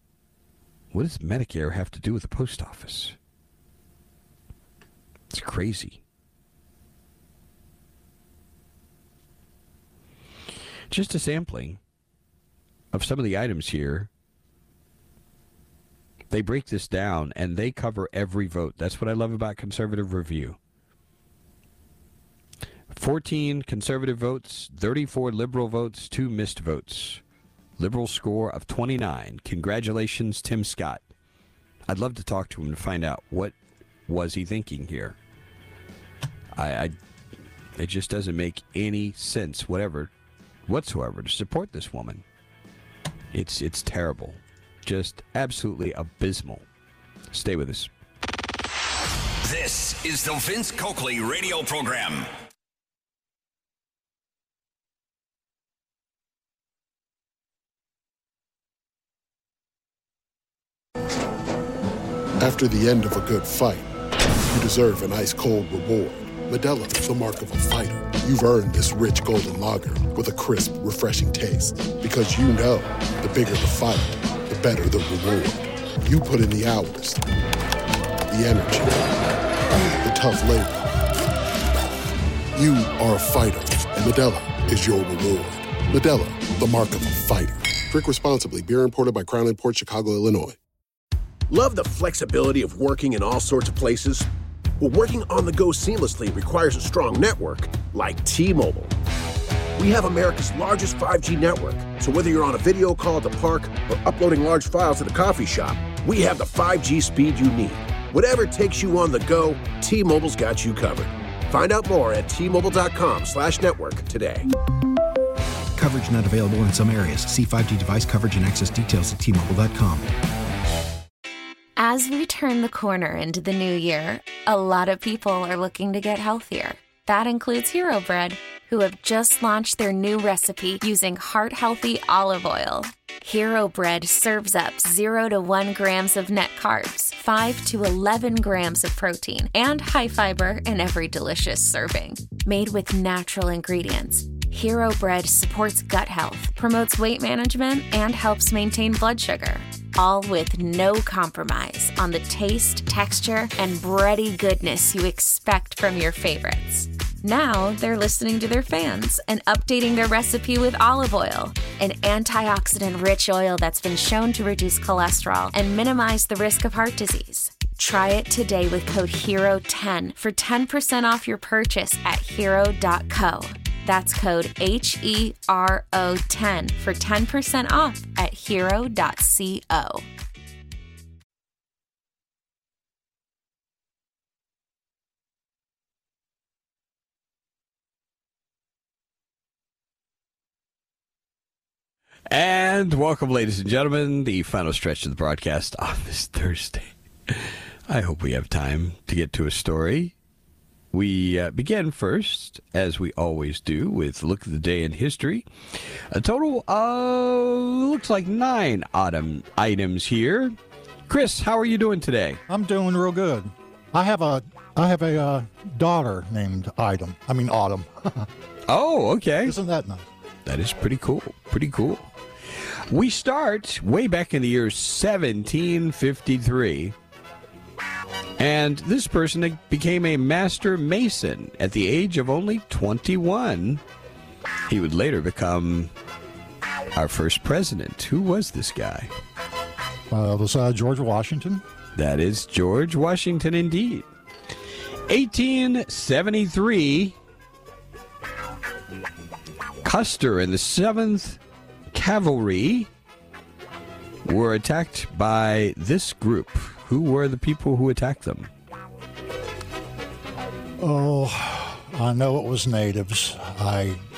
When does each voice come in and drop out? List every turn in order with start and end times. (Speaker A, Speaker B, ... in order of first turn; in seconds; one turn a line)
Speaker A: 0.9-3.1
Speaker A: 5.3-6.0
Speaker A: 10.9-11.8
Speaker A: 12.9-14.1
Speaker A: 16.3-20.6
Speaker A: 22.9-27.2
Speaker A: 27.8-31.0
Speaker A: 31.9-33.5
Speaker A: 34.1-35.2
Speaker A: 36.5-36.9
Speaker A: 37.8-40.1
Speaker A: 40.6-42.2
Speaker A: 43.3-46.7
Speaker A: 47.3-47.9
Speaker B: 49.4-52.3
Speaker C: 62.4-63.9
Speaker C: 64.5-77.2
Speaker C: 78.3-79.0
Speaker C: 80.0-80.8
Speaker C: 82.5-90.6
Speaker D: 91.5-94.3
Speaker D: 94.8-98.9
Speaker D: 99.8-114.5
Speaker E: 115.8-120.1
Speaker F: 121.8-180.0
Speaker A: 192.3-200.1
Speaker A: 200.9-205.5
Speaker A: 206.0-210.6
Speaker A: 211.1-212.4
Speaker G: 212.5-218.3
Speaker A: 218.7-219.6
Speaker G: 219.4-220.1
Speaker A: 220.4-222.1
Speaker A: 222.9-226.9
Speaker A: 228.4-233.8
Speaker A: 234.7-235.9
Speaker A: 236.9-239.1
Speaker G: 240.1-241.6
Speaker A: 241.9-244.1
Speaker A: 245.1-247.2
Speaker A: 249.8-251.4
Speaker A: 251.9-252.9
Speaker A: 254.2-258.5
Speaker G: 260.8-264.0